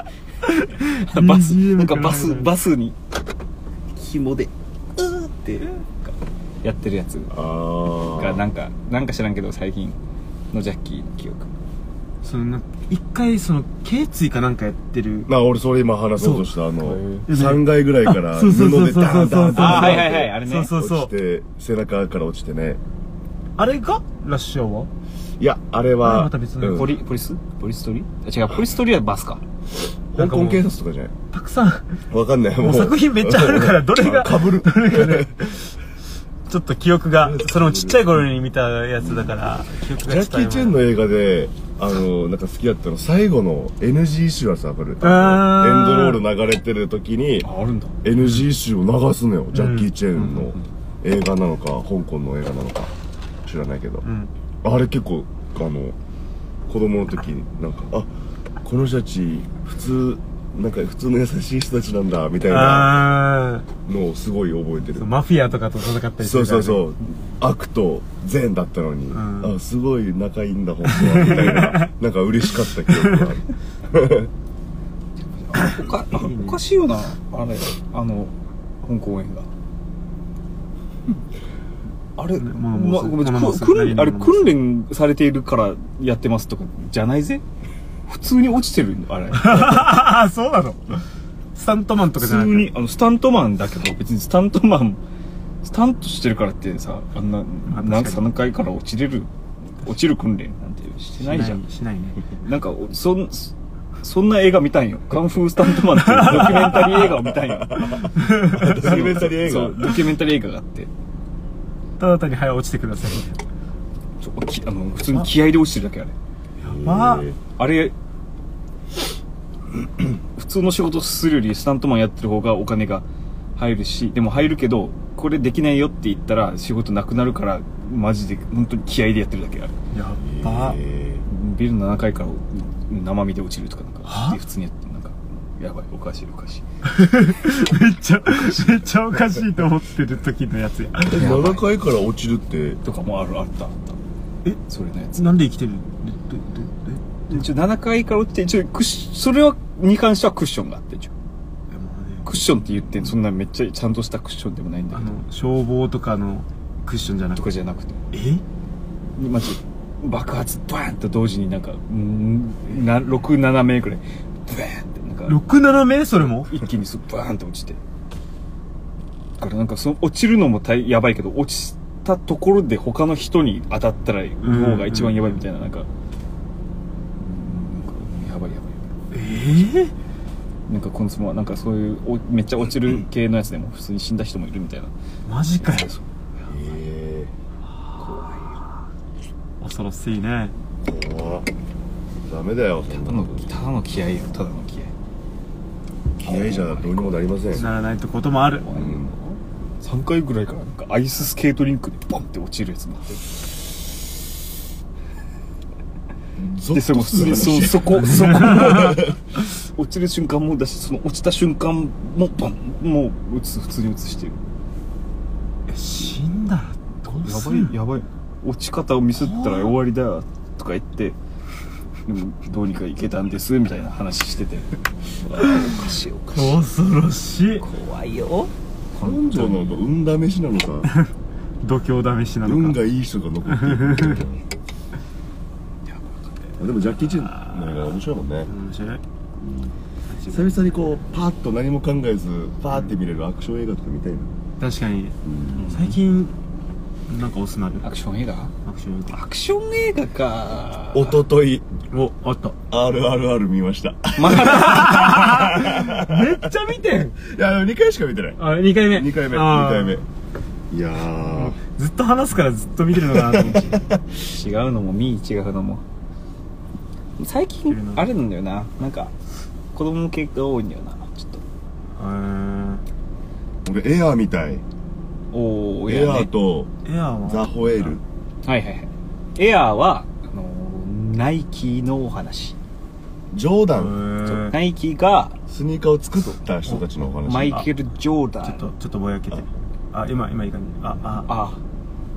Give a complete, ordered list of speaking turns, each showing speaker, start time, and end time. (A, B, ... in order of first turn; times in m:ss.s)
0:00.4-0:02.5 A
0:01.0-0:03.0 B
0:04.0-0:07.3 B
0:07.3-0:08.5 C
0:08.1-0:10.0 B
0:10.5-0:11.5 B
0:12.2-0:15.3 A
0:15.3-0:22.8 C
0:16.2-0:21.1 A
0:17.0-0:17.2 B
0:19.5-0:20.7 B
0:23.6-0:24.9 A
0:25.4-0:27.0 C
0:26.0-0:26.9 A
0:26.7-0:29.4 B
0:30.1-0:31.1 C
0:30.2-0:30.7 A
0:31.3-0:31.9 A
0:32.1-0:35.4 C
0:32.6-0:35.7 A
0:36.5-0:40.8 A
0:37.2-0:38.3 C
0:39.0-0:39.3 C
0:40.0-0:47.5 C
0:45.0-0:46.2 A
0:47.4-0:48.0 B
0:48.0-0:52.9 C
0:49.5-0:49.9 A
0:50.2-0:50.6 B
0:53.5-0:54.0 C
0:54.0-0:54.3 A
0:54.6-0:56.0 C
0:56.7-0:58.1 C
0:58.6-1:03.1 C
1:02.5-1:03.7 A
1:03.9-1:05.1 C
1:04.9-1:06.8 A
1:06.2-1:14.3 C
1:09.1-1:09.6 A
1:10.9-1:11.9 A
1:12.9-1:13.3 A
1:15.4-1:19.5 B
1:15.7-1:16.6 A
1:22.2-1:27.4 B
1:22.4-1:24.6 A
1:28.1-1:30.0 B
1:29.4-1:31.0 A
1:31.6-1:32.7 A
1:32.2-1:35.0 B
1:35.6-1:41.6 B
1:37.7-1:38.3 A
1:41.2-1:42.4 A
1:42.4-1:50.9 B
1:45.8-1:47.0 A
1:46.9-1:50.0 C
1:48.2-1:49.1 A
1:52.0-1:53.4 A
1:54.2-1:56.2 B
1:56.6-1:57.3 A
1:56.6-1:57.4 C
1:57.6-1:58.0 B
2:00.4-2:09.8 B
2:09.9-2:10.8 A
2:10.2-2:11.2 C
2:11.3-2:16.6 B
2:14.1-2:14.4 A
2:16.8-2:21.3 A
2:21.1-2:22.8 C
2:21.2-2:21.7 B
2:22.8-2:24.0 B
2:24.7-2:25.3 B
2:25.2-2:27.2 A
2:27.3-2:31.1 B
2:31.7-2:32.8 A
2:32.3-2:35.2 B
2:34.9-2:37.4 A
2:37.4-2:38.0 B
2:38.1-2:38.4 A
2:39.2-2:45.4 B
2:45.3-2:46.5 A
2:46.5-2:47.8 B
2:49.4-2:55.9 B
2:54.4-2:55.4 A
2:57.2-2:58.9 B
2:59.1-2:59.9 A
3:00.7-3:04.9 B
3:05.3-3:05.9 A
3:05.7-3:06.0 B
3:06.5-3:07.3 C
3:08.0-3:08.6 B
3:09.6-3:10.5 A
3:10.8-3:11.5 C
3:12.2-3:13.6 C
3:12.9-3:14.9 B
3:16.2-3:17.7 C
3:16.2-3:17.6 B
3:17.6-3:18.7 A
3:18.5-3:23.2 B
3:18.7-3:19.2 C
3:26.4-3:29.1 C
3:26.7-3:34.4 B
3:28.1-3:29.0 A
3:35.7-3:37.7 A
3:37.2-3:41.2 B
3:39.2-3:39.7 A
3:42.1-3:46.6 B
3:46.4-3:47.6 A
3:47.6-3:49.8 B
3:49.0-3:50.9 C
3:51.6-3:52.8 A
3:52.4-3:54.4 C
3:53.5-3:54.2 A
3:55.9-3:56.3 B
3:56.6-3:58.5 C
3:57.5-3:57.8 A
3:58.5-3:59.0 A
4:00.1-4:00.5 A
4:00.3-4:04.3 C
4:04.6-4:05.2 A
4:05.2-4:05.6 C
4:05.5-4:06.0 B
4:05.7-4:06.3 A
4:07.1-4:07.8 A
4:07.8-4:08.5 B
4:08.7-4:09.2 A
4:09.1-4:11.2 B
4:10.9-4:11.7 C
4:11.9-4:12.6 A
4:12.7-4:16.5 C
4:14.2-4:15.2 B
4:14.4-4:17.2 A
4:17.2-4:20.0 C
4:18.4-4:20.0 A
4:20.7-4:21.6 C
4:21.3-4:23.8 A
4:23.0-4:24.0 C
4:24.1-4:25.8 B
4:27.2-4:29.1 B
4:27.7-4:28.1 A
4:29.7-4:31.4 B
4:32.0-4:32.8 A
4:33.6-4:34.6 C
4:35.3-4:36.3 B
4:35.9-4:36.7 C
4:36.8-4:37.9 A
4:37.2-4:38.0 C
4:38.4-4:42.6 B
4:43.3-4:44.0 C
4:43.7-4:44.6 A
4:44.2-4:45.4 B
4:45.5-4:47.6 C
4:47.3-4:48.7 B
4:48.4-4:51.3 A
4:51.2-4:51.6 B